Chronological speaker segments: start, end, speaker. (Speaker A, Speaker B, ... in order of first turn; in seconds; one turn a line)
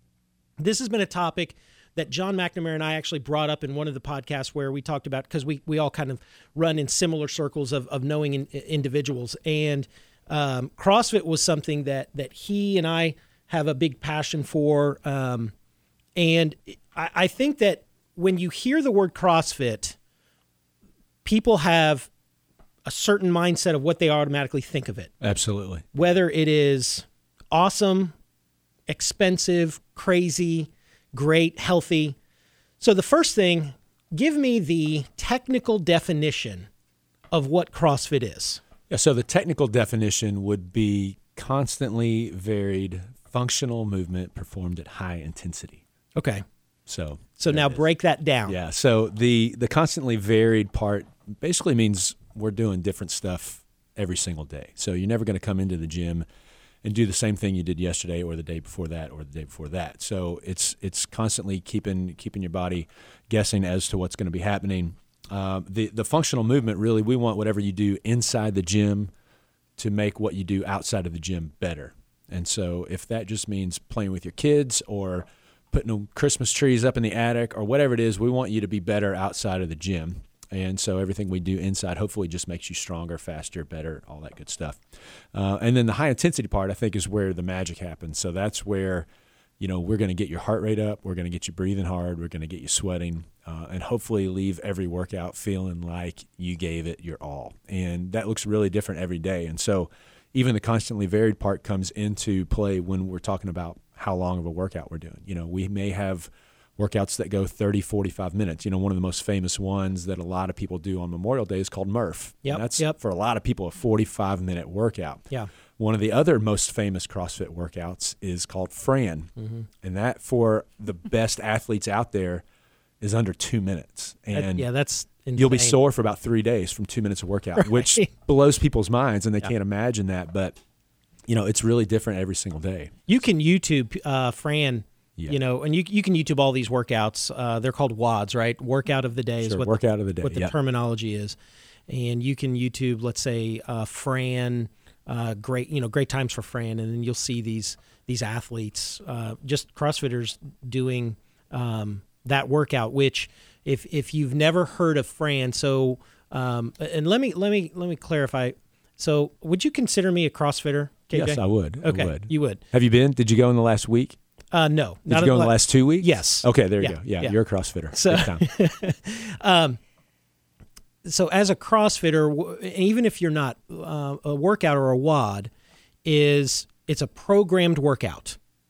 Speaker A: 0.6-15.5
Speaker A: 16.2-20.0
Speaker A: 21.2-22.1
Speaker A: 22.9-25.1
Speaker B: 25.2-25.9
Speaker A: 25.9-28.1
Speaker A: 28.9-32.2
Speaker A: 32.8-36.7
Speaker A: 37.3-38.6
Speaker B: 38.9-45.8
Speaker A: 46.2-46.4
Speaker B: 46.9-47.8
Speaker A: 47.4-48.6
Speaker B: 48.5-56.3
Speaker B: 56.8-69.1
Speaker B: 69.8-89.1
Speaker B: 89.6-122.4
Speaker A: 112.4-113.0
Speaker A: 119.4-119.7
Speaker B: 123.0-124.7
Speaker A: 124.3-125.8
Speaker B: 125.3-130.6
Speaker A: 127.6-128.1
Speaker B: 131.3-132.9
Speaker A: 133.1-141.4
Speaker B: 139.4-140.5
Speaker A: 141.9-162.6
Speaker B: 161.1-164.2
Speaker A: 164.5-167.4
Speaker B: 165.1-168.4
Speaker A: 167.9-169.8
Speaker A: 171.0-175.5
Speaker A: 176.1-178.4